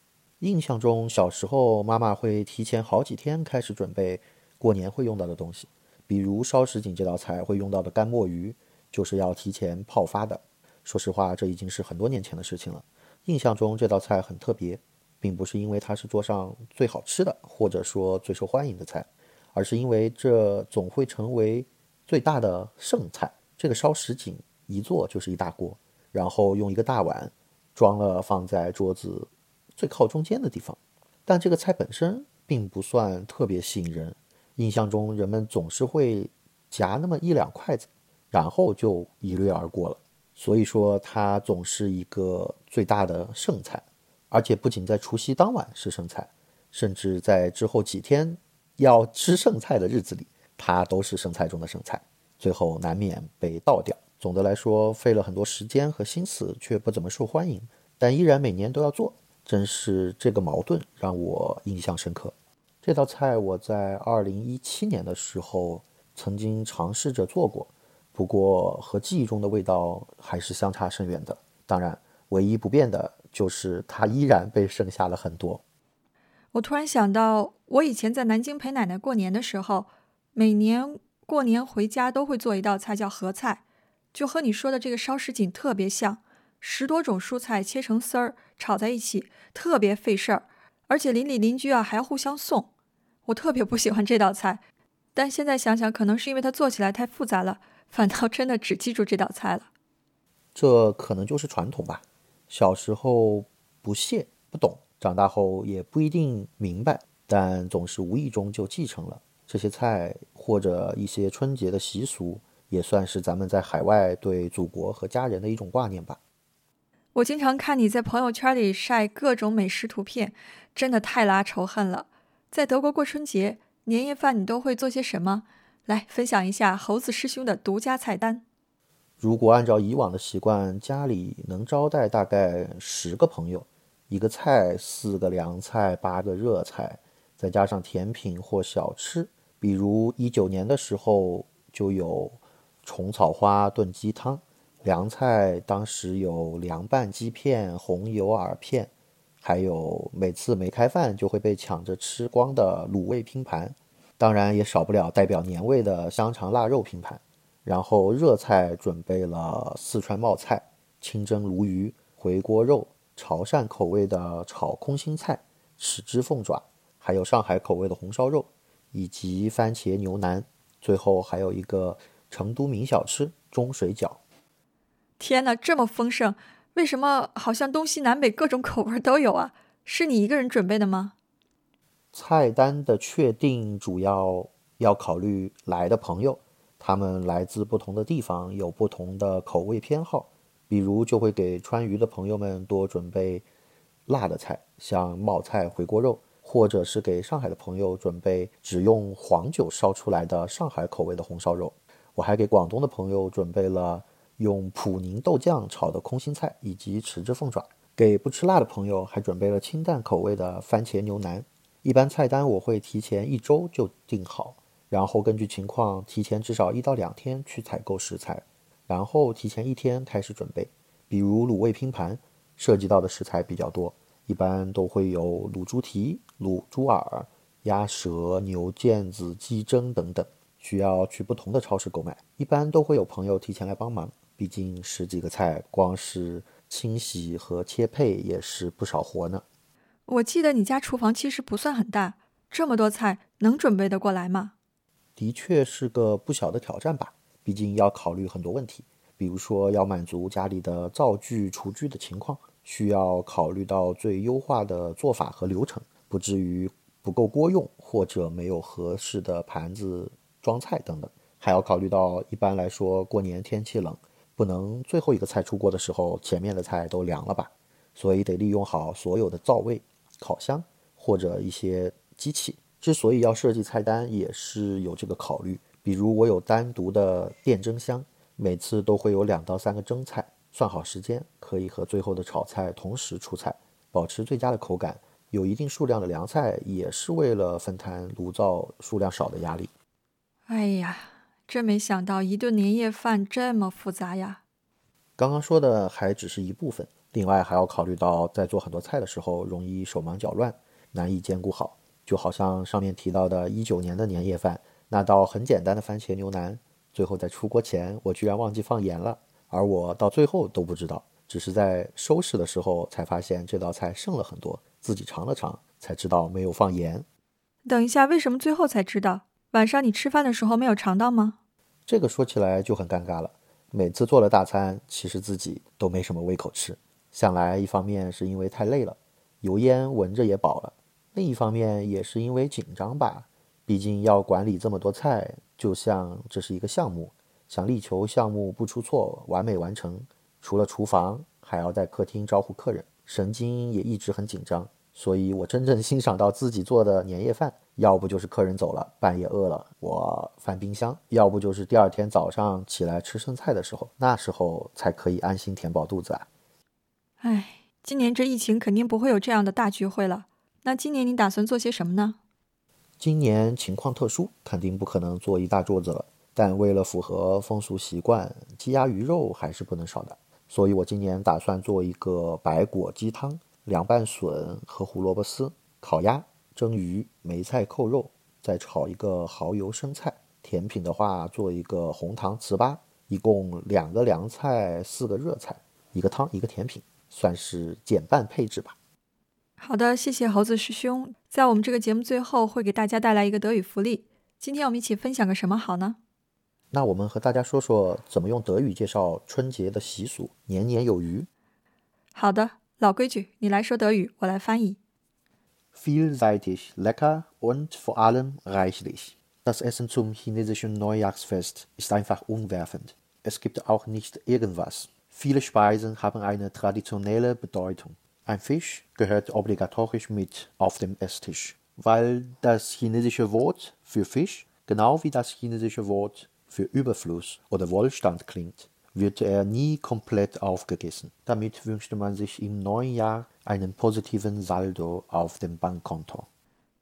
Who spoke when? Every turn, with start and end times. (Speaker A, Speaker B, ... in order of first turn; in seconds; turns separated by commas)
Speaker A: 0.4-75.6, Speaker B: 76.5-83.6, Speaker B: 84.1-92.7, Speaker B: 93.2-94.6, Speaker B: 95.1-99.7, Speaker A: 100.5-116.2, Speaker B: 117.1-128.4, Speaker A: 129.2-174.2, Speaker B: 175.2-181.1, Speaker A: 182.1-193.4, Speaker A: 194.1-239.4, Speaker B: 240.1-244.5, Speaker A: 245.2-289.7, Speaker B: 290.5-294.4, Speaker A: 295.2-317.1, Speaker B: 317.6-321.4, Speaker A: 321.9-356.3, Speaker B: 357.2-362.2, Speaker A: 363.0-388.7, Speaker B: 389.6-396.0, Speaker A: 396.7-401.3, Speaker B: 402.1-404.8, Speaker A: 405.7-436.3